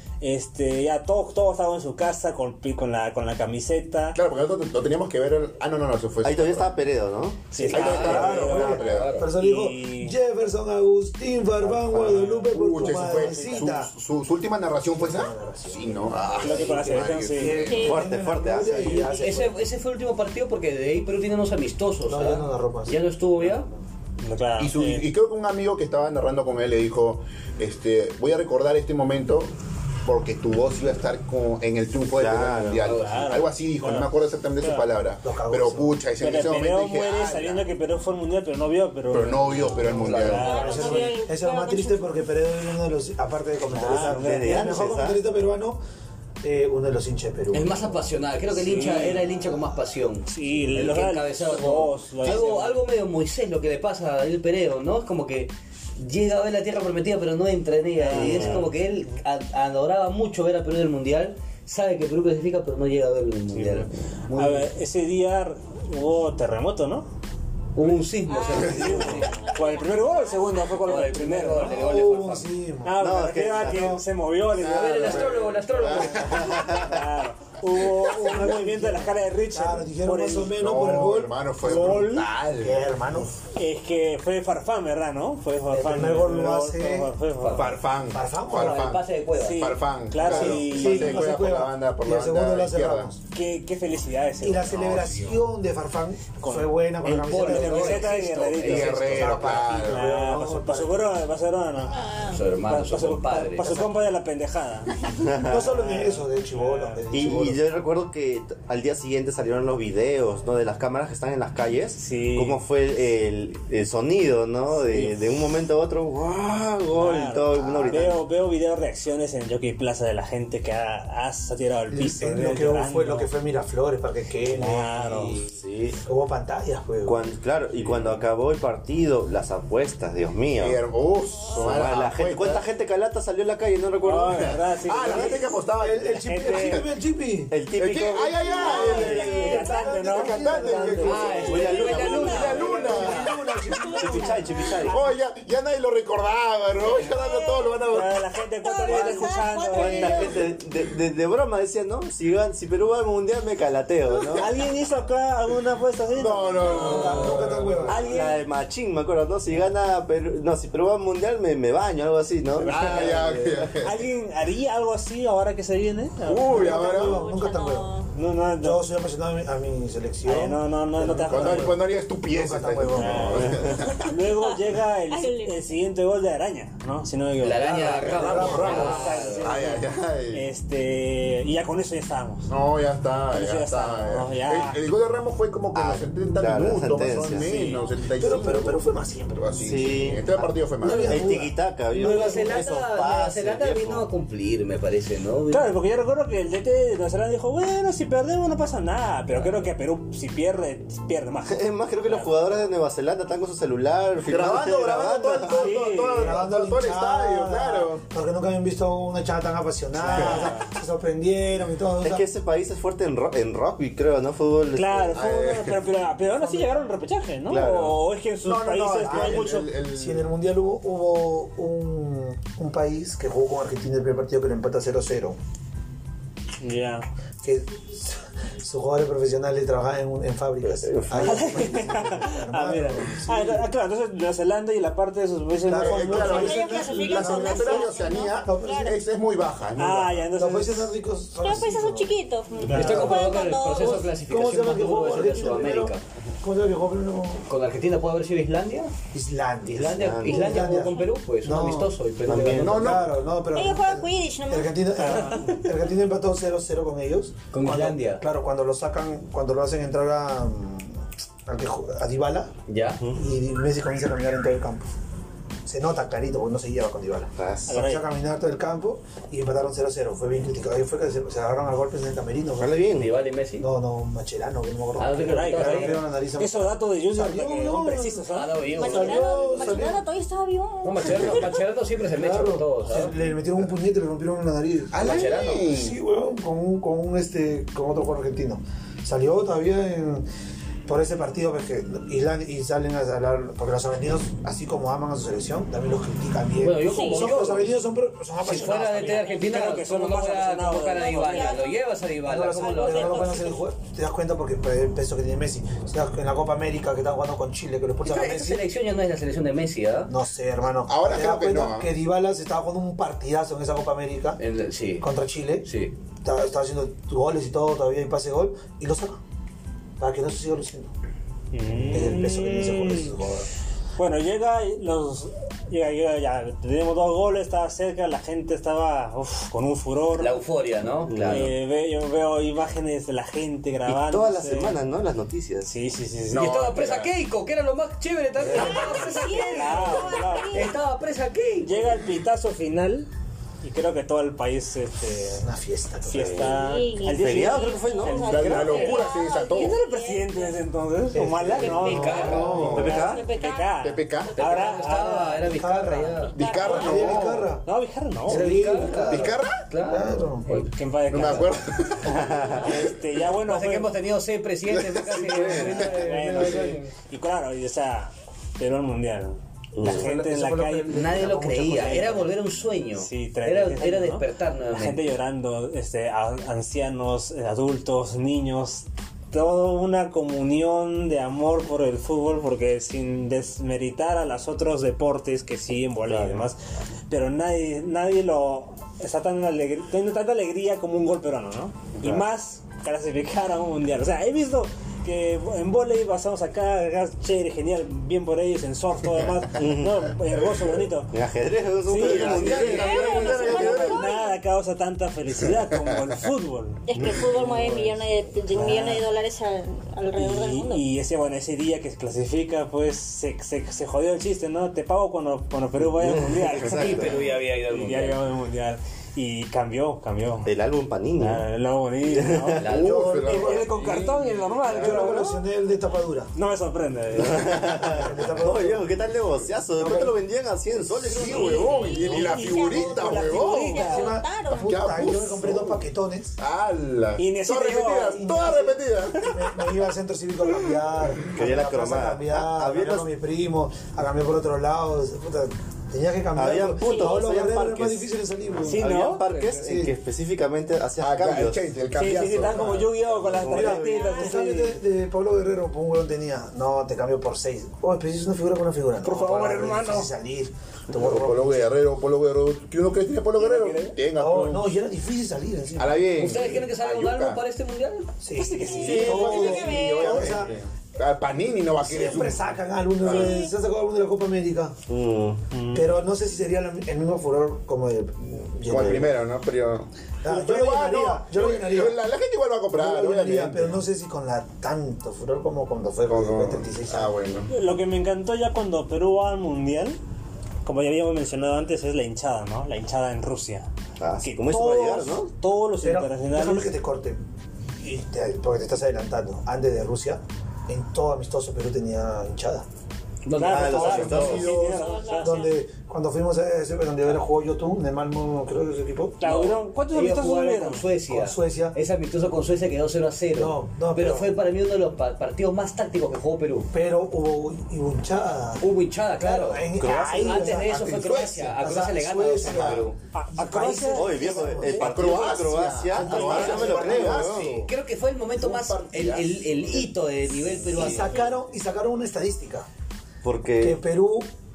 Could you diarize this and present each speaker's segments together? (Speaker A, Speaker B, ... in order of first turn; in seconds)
Speaker A: 0.2-4.2, 7.5-10.1, 11.9-13.7, 16.4-17.6, 24.2-25.1, 32.9-34.9, 36.2-41.2, 43.7-44.9, 48.5-49.3, 50.2-52.8, 58.0-58.7, 63.5-67.1, 68.5-71.7, 72.8-75.4, 76.6-80.5, 81.6-82.3, 83.5-87.8, 89.3-91.3, 93.3-95.2, 96.4-107.1, 112.0-112.6, 114.8-115.2, 116.9-123.3, 124.5-125.5, 134.0-135.5, 136.1-136.8, 138.6-141.4, 147.9-150.4, 154.4-158.4, 162.6-163.2, 163.8-166.6, 168.1-168.8, 170.2-171.8, 172.9-182.5, 183.3-184.8, 187.3-187.8, 195.5-202.3, 205.5-206.4, 210.0-210.7, 214.7-219.7, 226.6-227.0, 231.2-236.5, 239.8-240.9, 242.7-243.1, 255.0-255.6, 267.7-268.1, 275.2-278.7, 299.3-301.6, 321.5-323.1, 324.0-330.3, 331.2-334.8, 335.6-337.0, 338.8-340.7, 341.6-343.1, 343.6-345.4, 346.1-355.4, 357.6-358.5, 360.5-363.9, 365.7-371.3, 371.9-372.2, 373.0-386.6, 387.1-401.1, 401.8-408.0, 408.5-409.0, 410.1-420.5, 421.2-425.4, 426.3-427.9, 431.9-434.2, 437.2-438.3, 448.6-449.2, 451.9-454.8, 459.0-460.1, 463.4-464.0, 468.4-470.4, 475.5-475.9, 487.5-490.0, 490.6-493.7, 494.2-496.8, 503.3-505.5, 509.2-510.9, 523.1-524.9
Speaker B: 4.1-6.7, 7.7-9.2, 12.5-17.9, 24.6-29.5, 30.0-37.7, 39.1-40.6, 74.5-76.9, 77.8-78.3, 80.5-82.9, 87.5-93.1, 94.8-95.3, 98.6-100.1, 130.6-132.6, 134.3-136.9, 137.7-143.3, 144.8-148.1, 156.1-158.1, 162.6-164.0, 166.2-167.2, 171.3-174.1, 178.0-180.4, 182.5-188.8, 189.4-191.3, 204.2-207.9, 215.1-215.8, 218.6-220.3, 235.7-240.2, 252.5-253.1, 284.9-285.9, 310.9-311.9, 348.3-349.8, 352.2-352.9, 353.8-354.4, 356.3-357.6, 359.1-359.6, 361.1-362.4, 364.7-366.1, 401.9-403.9, 422.6-425.2, 431.0-433.8, 434.5-435.9, 436.4-439.3, 451.0-452.9, 460.9-464.7, 465.8-467.4, 468.8-472.5, 473.0-473.4, 478.7-483.8, 486.1-487.5, 504.2-504.5, 524.7-527.7, 528.4-529.9
Speaker C: 6.2-7.5, 11.8-12.1, 17.7-19.2, 32.1-32.9, 43.9-45.2, 58.1-58.7, 73.0-74.0, 76.4-77.0, 105.1-105.7, 107.1-118.2, 125.4-126.0, 127.0-130.8, 131.5-134.6, 137.5-139.1, 141.4-142.6, 143.9-145.0, 149.7-154.5, 157.9-163.7, 185.7-187.7, 189.6-190.2, 191.0-194.1, 201.5-205.7, 212.0-215.2, 217.5-218.0, 230.8-231.6, 249.9-250.5, 252.2-252.9, 267.4-267.7, 272.6-273.1, 331.1-331.5, 333.9-335.7, 346.1-348.8, 352.5-353.3, 362.1-362.8, 369.7-370.1, 386.0-386.5, 399.5-400.0, 401.1-404.0, 415.8-417.2, 420.4-421.4, 422.1-422.7, 427.1-431.9, 441.3-443.1, 446.3-448.1, 448.6-451.6, 452.6-453.9, 468.8-469.6, 474.9-475.4, 494.0-495.3, 503.4-504.7, 519.8-520.5, 523.9-527.6, 530.7-531.1, 533.2-533.8
Speaker D: 7.5-9.3, 16.1-16.5, 19.0-23.7, 32.8-33.2, 39.8-40.8, 47.5-64.7, 67.7-69.3, 70.8-72.5, 74.6-76.6, 87.4-87.8, 88.5-89.7, 97.0-99.4, 102.2-103.8, 141.0-143.3, 177.4-179.7, 191.9-195.7, 242.7-246.0, 247.5-248.9, 249.7-252.9, 257.5-258.2, 262.7-263.0, 272.9-273.7, 275.0-276.0, 278.3-279.9, 280.8-283.1, 285.0-285.7, 296.6-297.8, 298.4-303.4, 308.0-310.1, 314.4-315.1, 315.6-315.9, 330.2-331.5, 336.3-341.8, 351.7-352.6, 354.4-356.3, 358.3-360.7, 363.4-366.9, 370.9-375.0, 402.3-403.6, 416.7-418.2, 422.6-423.3, 449.3-449.5, 466.1-468.1, 503.2-504.5, 509.2-516.7, 518.6-523.0, 525.9-531.3
Speaker E: 7.6-13.9, 14.9-19.6, 22.0-23.0, 35.2-36.0, 40.5-45.8, 46.4-47.9, 71.6-73.0, 73.6-74.0, 78.1-81.3, 82.6-83.3, 85.7-87.1, 88.1-88.9, 90.2-93.2, 94.4-98.2, 99.0-101.1, 103.6-103.9, 105.4-107.6, 117.8-118.1, 121.9-125.4, 126.0-127.3, 135.8-137.5, 138.6-141.6, 142.5-144.4, 156.6-158.1, 166.5-167.9, 168.6-171.8, 172.3-173.7, 178.0-179.2, 188.1-189.6, 190.2-192.7, 206.1-212.2, 216.3-216.9, 218.4-225.4, 227.4-233.7, 235.6-239.0, 240.3-242.1, 242.7-243.3, 244.2-247.5, 249.1-251.9, 252.5-262.5, 263.1-264.9, 265.6-272.8, 273.6-280.0, 282.1-290.2, 290.9-299.3, 302.2-308.6, 310.1-314.4, 315.0-315.7, 316.2-319.2, 320.0-320.9, 321.9-323.5, 345.4-346.6, 351.1-352.9, 355.4-357.6, 358.2-360.6, 365.5-366.8, 369.8-372.3, 422.8-423.7, 424.7-426.3, 427.5-428.9, 429.7-430.1, 430.7-431.9, 432.7-436.4, 438.1-448.9, 449.5-449.9, 453.4-461.7, 464.1-466.3, 468.2-470.5, 471.8-474.8, 475.7-479.2, 480.2-482.0, 482.7-487.1, 495.8-497.2, 497.8-502.6, 503.8-504.2, 505.2-509.2, 511.1-511.8, 513.4-514.3, 516.7-524.8, 526.1-527.0, 530.6-532.7, 533.6-534.3
Speaker F: 17.6-18.1, 40.3-42.1, 68.3-70.8, 102.0-102.4, 138.5-139.9, 141.3-144.9, 146.9-147.8, 148.6-150.5, 166.6-168.1, 174.1-174.6, 175.1-175.6, 236.2-238.9, 241.4-244.1, 250.6-251.1, 253.5-254.7, 278.7-281.5, 296.9-297.3, 300.9-301.8, 302.5-303.6, 338.5-340.8, 346.6-350.6, 351.6-354.7, 356.3-357.3, 402.6-404.4, 406.9-410.8, 431.4-434.7, 446.8-447.2, 453.8-454.3, 468.7-470.4, 473.1-473.5, 504.5-505.5